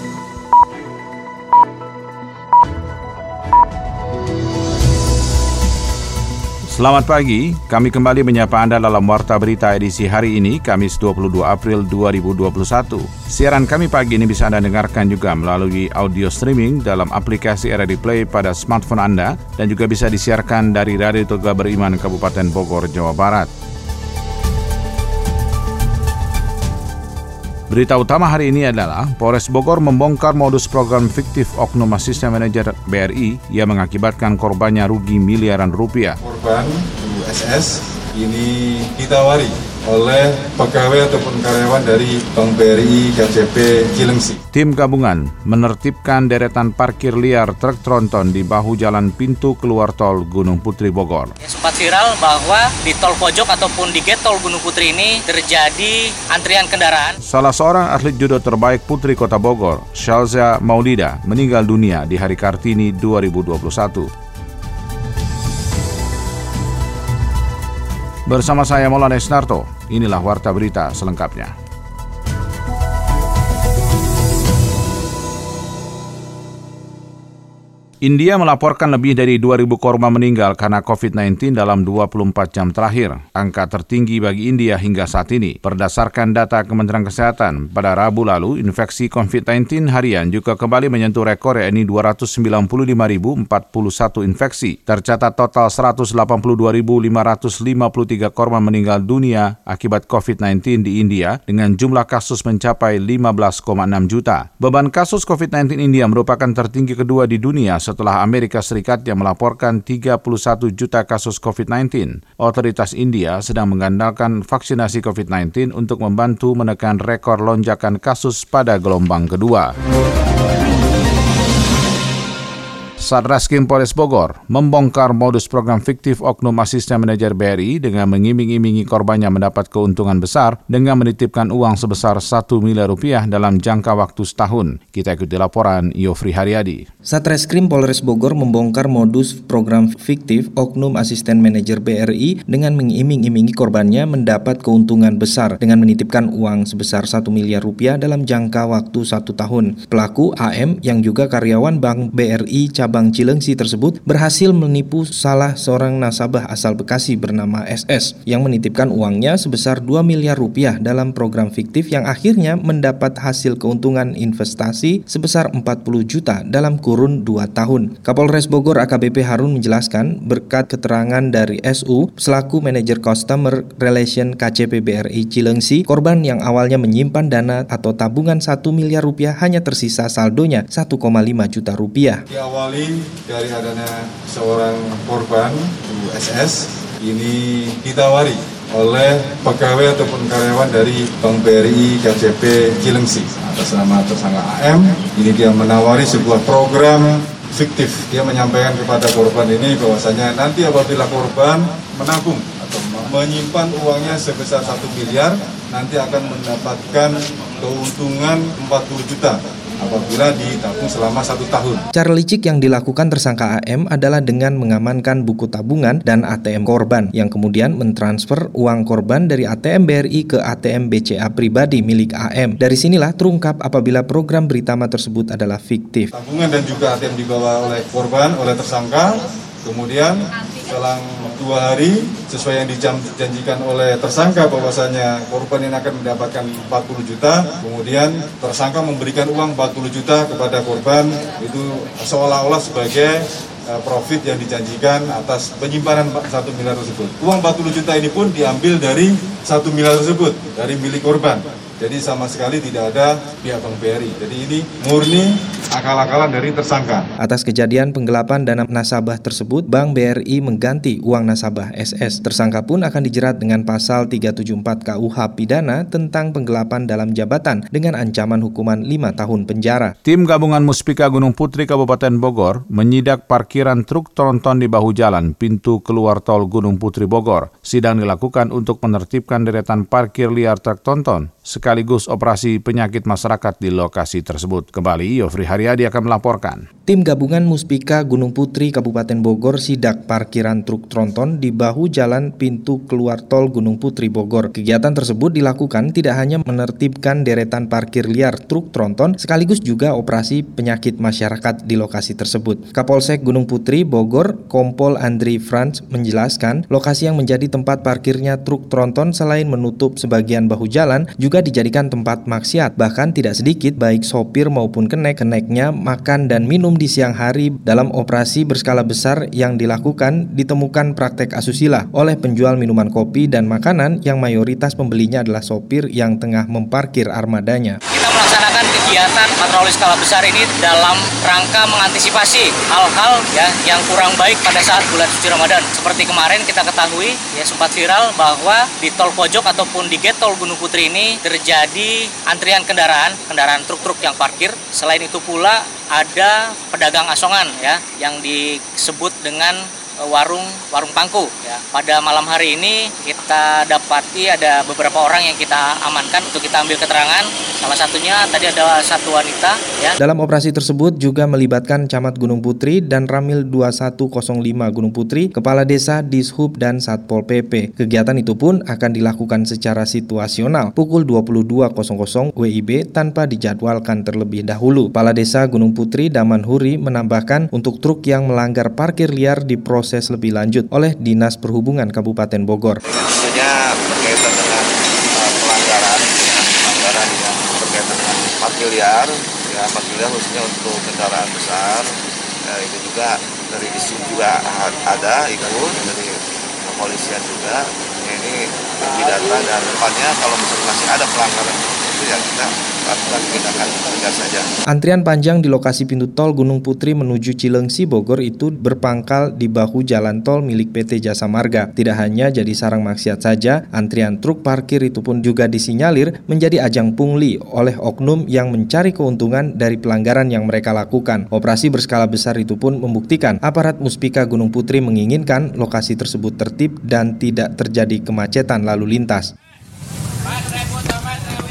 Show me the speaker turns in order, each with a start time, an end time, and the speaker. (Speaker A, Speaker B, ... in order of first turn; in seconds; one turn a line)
Speaker A: 6.7-23.5
Speaker A: 27.7-36.2
Speaker B: 36.2-44.4
Speaker A: 44.5-51.3
Speaker C: 51.4-57.1
Speaker A: 57.2-64.1
Speaker A: 68.3-71.5
Speaker A: 78.0-119.7
Speaker A: 123.0-136.8
Speaker D: 137.1-182.2
Speaker B: 182.3-211.8
Speaker D: 211.9-226.1
Speaker B: 226.1-257.1
Speaker D: 257.2-269.9
Speaker A: 270.0-286.6
Speaker D: 286.9-327.8
Speaker C: 327.9-359.9
Speaker D: 360.0-382.8
Speaker E: 382.9-391.9
Speaker E: 392.5-404.5
Speaker D: 404.7-429.3